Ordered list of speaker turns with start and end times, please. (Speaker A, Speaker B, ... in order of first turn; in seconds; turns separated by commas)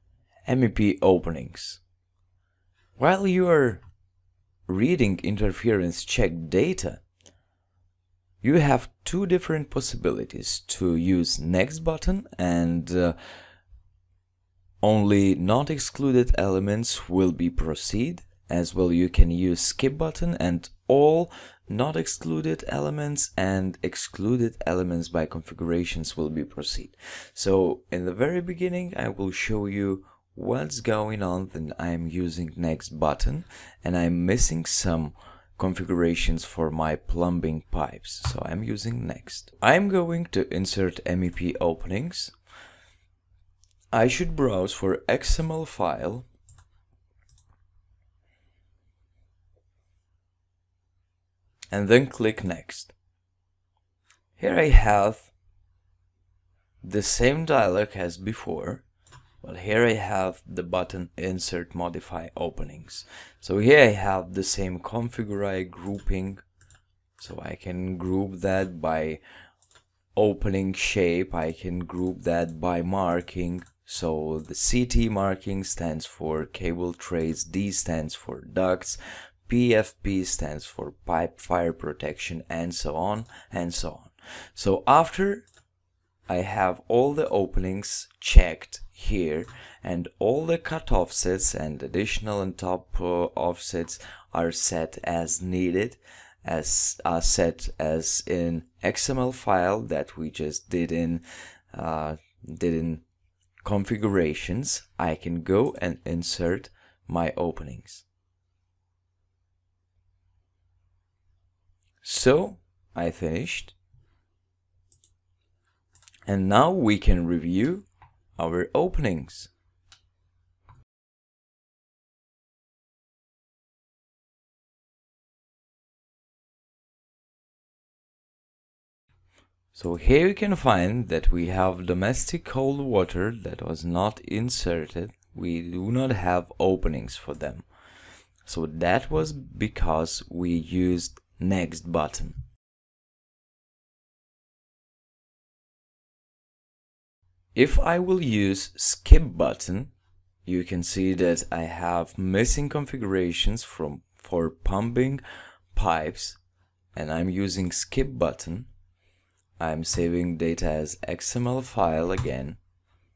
Speaker A: 0.4-1.8, Speaker A: 3.0-3.8, Speaker A: 4.7-7.0, Speaker A: 8.4-13.2, Speaker A: 14.8-42.3, Speaker A: 43.9-46.3, Speaker A: 51.7-52.9, Speaker A: 54.4-55.3, Speaker A: 56.8-58.9, Speaker A: 59.4-66.4, Speaker A: 67.2-69.2, Speaker A: 70.2-85.5, Speaker A: 86.3-103.0, Speaker A: 103.6-108.0, Speaker A: 112.0-113.8, Speaker A: 116.2-119.5, Speaker A: 129.7-137.6, Speaker A: 138.4-142.4, Speaker A: 147.5-149.9, Speaker A: 150.4-155.2, Speaker A: 155.7-156.4, Speaker A: 156.9-158.7, Speaker A: 159.6-162.6